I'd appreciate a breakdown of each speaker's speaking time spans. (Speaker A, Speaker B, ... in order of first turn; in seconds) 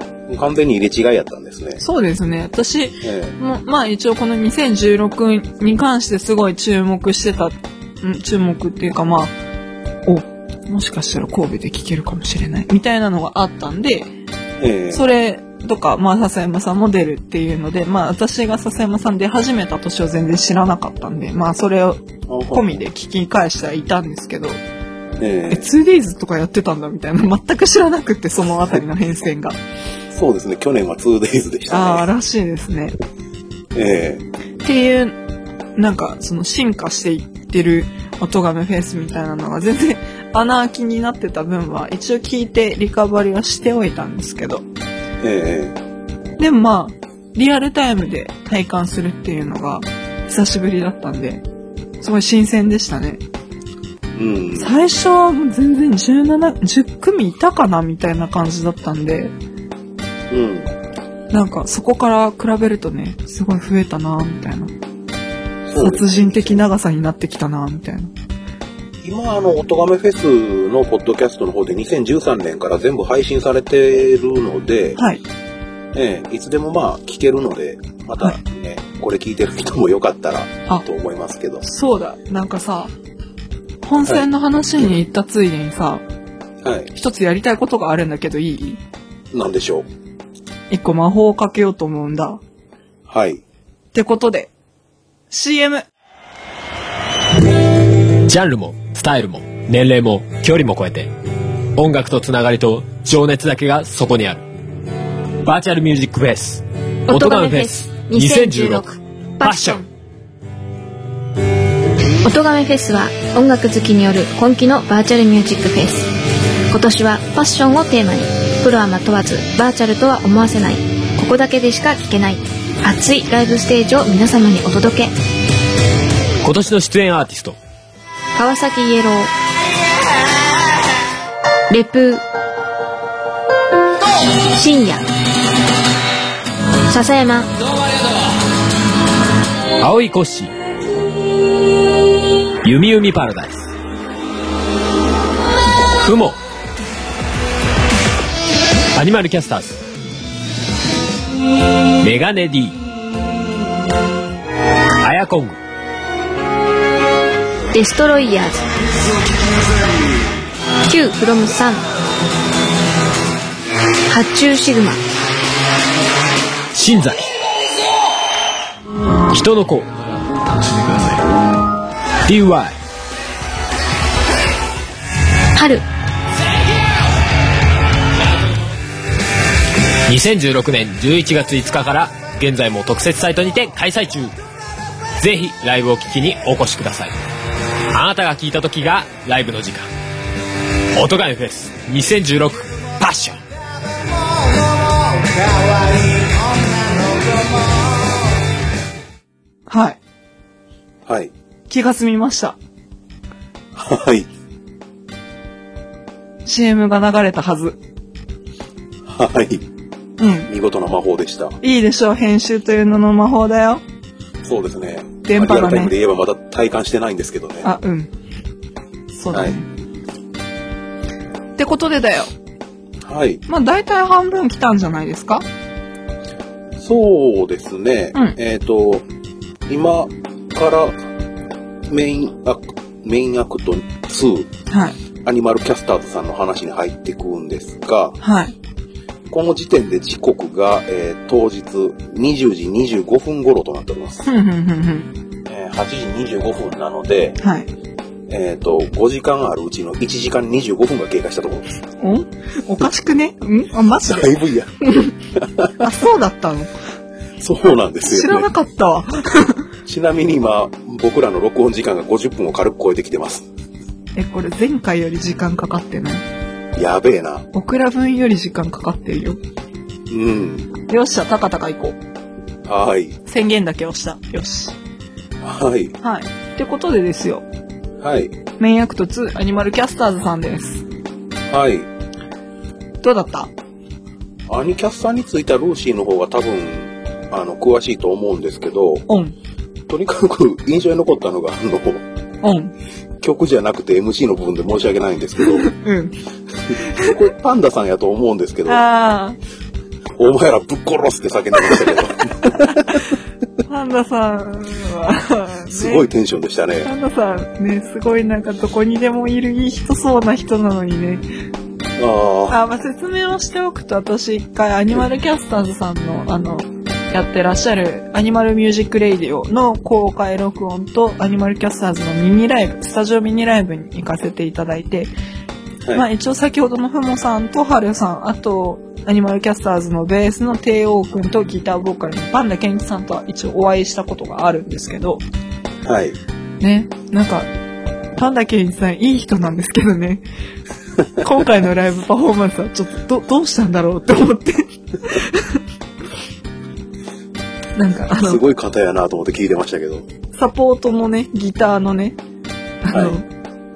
Speaker A: 0.3-1.8, 3.0-3.4, 14.6-15.0, 22.3-22.8, 25.2-25.7, 30.1-32.0, 33.7-34.2, 45.2-45.8, 54.1-54.8, 60.3-60.7, 65.7-66.6, 69.0-75.0, 75.9-81.6, 84.0-84.9, 86.6-86.9, 89.3-89.9, 93.1-93.4, 201.0-201.3, 203.7-204.3, 209.0-209.7, 210.5-211.6, 214.4-217.7, 219.3-219.6, 223.0-223.4, 226.8-229.1, 229.7-231.0, 231.9-234.5, 235.2-238.2, 239.3-244.3, 245.4-247.4, 248.3-251.7, 254.0-254.7, 255.3-255.9, 257.4-258.5, 259.9-263.5, 266.7-267.5, 270.1-270.7, 272.6-273.2, 275.4-275.9, 278.0-278.4, 281.5-281.9, 284.5-289.1, 289.9-292.0, 293.2-295.7, 296.7-298.8, 300.1-303.0, 305.7-306.9, 312.0-312.6, 335.8-336.2, 348.1-350.1, 352.9-353.2
Speaker B: 1.8-9.3, 10.1-14.1, 14.9-24.6, 25.5-29.6, 31.7-32.9, 34.6-35.1, 35.8-44.6, 46.4-51.4, 52.0-53.2, 54.6-59.3, 61.3-64.7, 65.8-68.1, 75.0-75.2, 81.6-82.9, 83.8-86.0, 86.9-88.8, 90.7-92.4, 93.9-94.5, 95.3-95.8, 199.7-200.0, 201.7-202.6, 206.4-207.8, 210.2-210.5, 211.6-213.8, 215.2-215.9, 217.6-218.1, 219.1-219.7, 221.6-222.3, 223.5-225.4, 234.7-235.0, 238.2-238.5, 244.2-245.1, 247.4-247.7, 252.0-255.1, 255.8-256.7, 258.0-259.6, 264.1-266.2, 267.5-269.4, 270.9-272.0, 273.2-274.8, 276.0-277.4, 278.6-280.8, 283.0-283.5, 289.1-289.3, 292.4-292.7, 295.6-296.2, 296.7-297.1, 298.6-299.4, 302.4-302.8, 303.6-306.1, 306.8-311.2, 312.5-325.1, 325.9-335.2, 336.6-337.5, 338.1-340.2, 341.2-345.6, 347.8-348.4, 350.3-352.2, 352.8-353.2
Speaker C: 98.2-101.1, 101.8-104.4, 105.4-108.8, 109.4-109.8, 126.4-127.6, 139.8-140.5, 142.6-143.7, 146.0-146.4, 148.9-149.8, 152.0-152.8, 155.0-155.6, 166.7-167.3, 169.3-169.9, 170.6-171.2, 172.2-172.7, 180.1-184.3, 185.2-187.1, 187.9-189.9, 190.9-193.4
Speaker D: 107.1-109.8, 112.2-116.1, 116.7-125.1, 128.3-129.3, 131.7-132.2, 134.5-135.1, 136.9-137.5, 157.7-158.7, 160.9-161.8, 164.1-165.0, 175.5-175.8